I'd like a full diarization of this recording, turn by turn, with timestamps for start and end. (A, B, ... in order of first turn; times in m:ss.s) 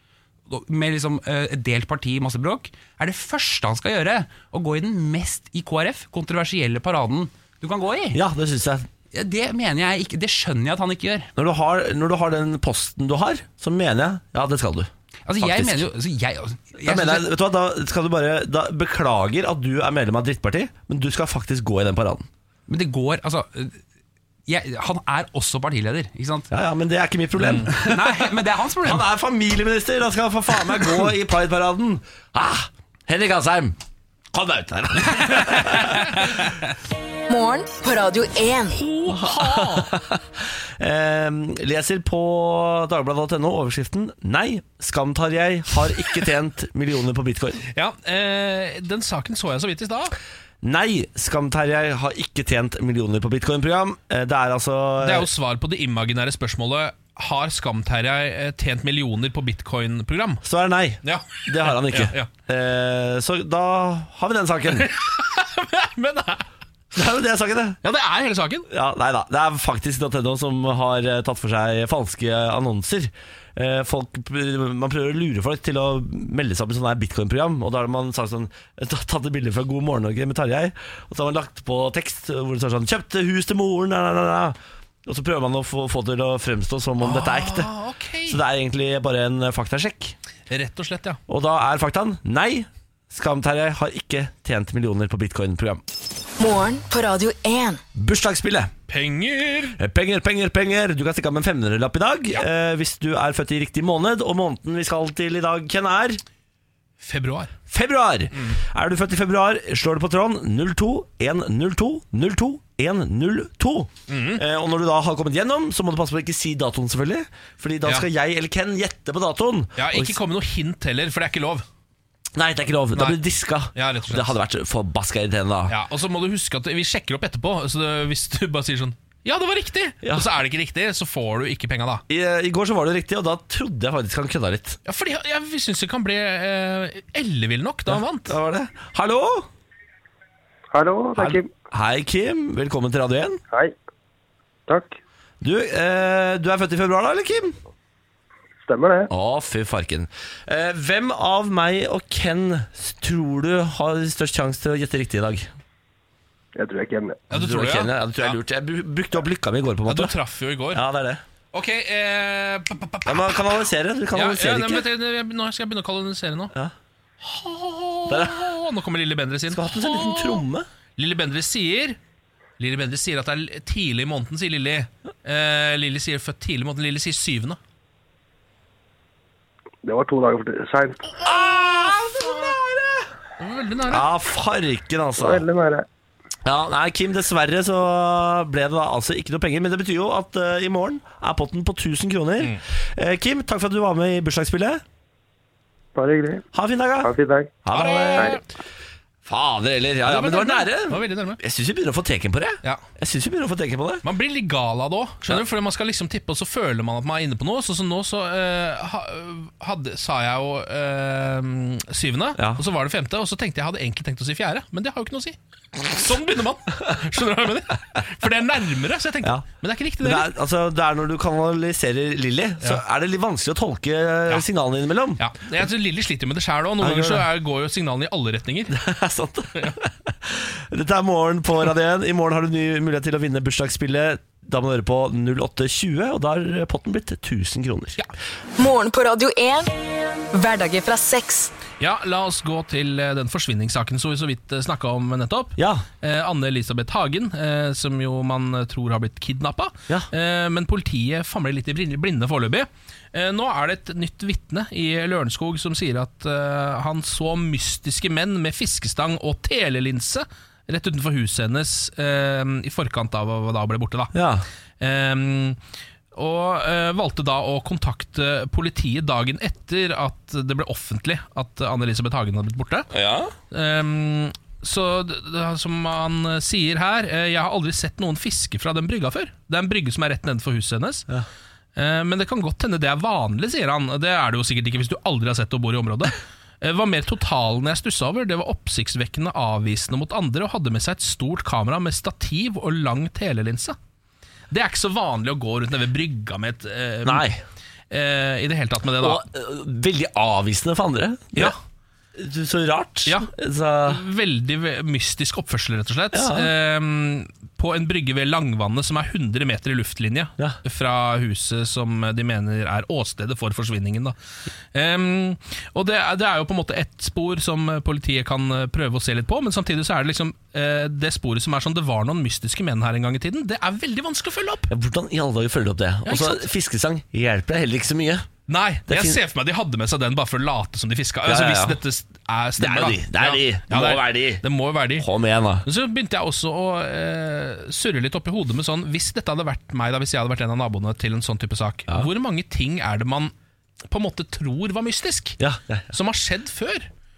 0:00.5-0:08.2 A
0:08.1-0:08.9 B
0:09.1-0:11.3 A
0:11.4-0:15.9 B
0:15.3-0:17.3 A
0:16.8-0:22.3 B
0:22.7-0:23.8 A
0:24.5-0:26.5 A
0:26.5-0:33.8 B
0:27.4-0:27.7 C
0:27.7-0:29.1 A
0:34.3-0:36.4 B
0:37.3-0:38.8 D
0:38.7-0:39.9 C
0:39.1-0:47.6 B
0:47.7-0:50.2 C
0:50.6-0:55.3 B
0:55.0-1:00.4 C
1:00.4-1:04.9 B
1:01.0-1:02.3 C
1:04.8-1:06.4 C
1:06.9-1:07.8 B
1:07.8-1:08.7 C
1:08.7-1:27.7 B
1:27.0-1:28.4 C
1:28.3-1:30.2 B
1:30.5-1:31.2 C
1:31.3-1:35.8 B
1:36.4-1:37.8 D
1:38.0-1:38.7 B
1:38.9-1:39.8 C
1:39.8-1:46.2 B
1:47.0-1:47.5 C
1:47.7-2:00.2 B
1:54.1-1:54.4 C
1:59.8-2:01.6 C
2:02.3-2:05.7 B
2:03.0-2:03.2 C
2:03.7-2:04.3 C
2:05.7-2:12.0 C
2:10.0-2:10.3 B
2:12.1-2:14.8 B
2:14.8-2:18.4 C
2:17.9-2:19.5 B
2:20.7-2:21.5 E
2:21.2-2:23.4 B
2:24.7-2:25.0 E
2:25.4-2:27.6 B
2:28.6-2:29.1 E
2:29.1-2:35.5 B
2:36.6-2:37.3 E
2:37.3-2:38.4 C
2:37.3-2:40.2 B
2:39.9-2:40.8 C
2:40.7-2:41.2 B
2:41.5-2:43.5 C
2:43.1-2:44.9 B
2:44.1-2:46.5 C
2:47.2-2:50.4 C
2:48.1-2:48.5 B
2:49.5-2:50.7 B
2:51.0-2:52.0 C
2:52.6-2:57.6 C
2:59.8-3:01.2 E
3:01.2-3:03.1 B
3:01.3-3:02.6 C
3:03.4-3:04.1 C
3:03.9-3:05.4 B
3:05.2-3:05.9 E
3:06.4-3:14.8 B
3:16.0-3:16.5 E
3:16.5-3:17.1 B
3:17.0-3:17.6 E
3:17.6-3:18.4 B
3:17.7-3:18.4 C
3:19.2-3:24.0 B
3:20.0-3:21.4 C
3:24.0-3:40.3 C
3:32.4-3:32.6 B
3:40.0-3:45.2 B
3:45.2-3:48.8 C
3:46.8-3:47.3 B
3:48.7-3:58.0 B
3:58.6-3:59.7 D
4:00.3-4:01.5 D
4:01.8-4:24.1 C
4:05.6-4:05.8 B
4:24.1-4:24.4 B
4:24.8-4:25.6 C
4:26.1-4:32.9 C
4:32.9-4:33.3 B
4:33.5-4:41.1 C
4:41.8-4:53.8 C
4:54.5-4:57.3 C
4:57.0-4:57.4 B
4:57.9-4:59.2 C
4:59.0-5:01.6 B
5:02.2-5:04.0 B
5:03.9-5:14.2 C
5:06.1-5:06.5 B
5:14.7-5:24.7 C
5:24.7-5:28.3 B
5:26.1-5:26.5 C
5:28.5-5:35.1 C
5:28.9-5:29.2 B
5:31.2-5:31.8 B
5:32.6-5:34.4 B
5:35.0-5:35.6 B
5:35.6-5:43.3 C
5:43.9-5:45.4 C
5:45.4-5:45.9 B
5:45.9-5:46.9 C